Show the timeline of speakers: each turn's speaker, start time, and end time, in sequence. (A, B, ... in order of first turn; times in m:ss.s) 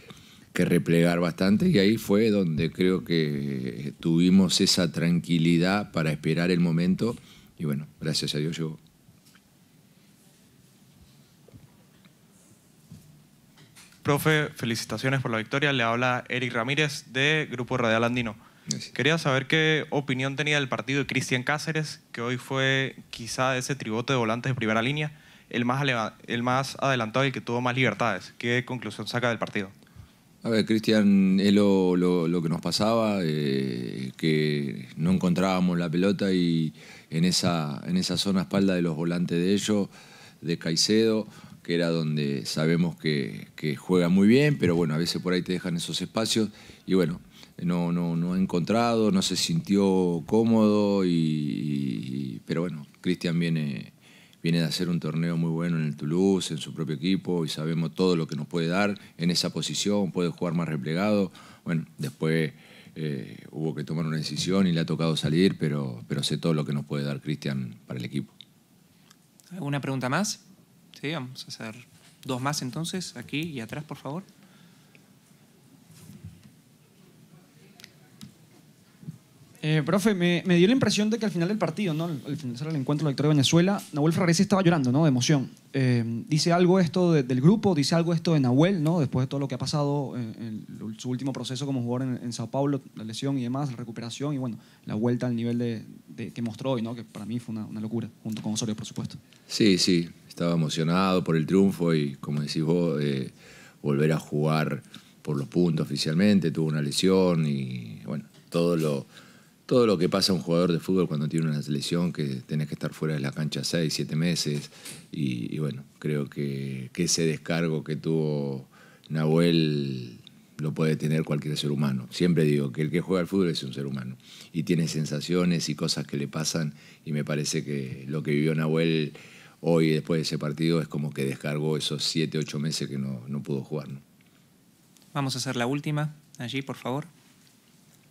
0:00.5-0:08.8 A
0:14.0-0:18.4 B
0:19.0-0:29.7 B
0:30.4-0:39.9 A
0:40.4-1:08.4 A
1:09.5-1:10.4 C
1:11.0-1:14.3 C
1:19.6-1:39.2 D
1:39.5-1:43.3 A
1:43.8-1:49.1 A
1:49.7-2:14.0 A
2:15.1-2:17.1 C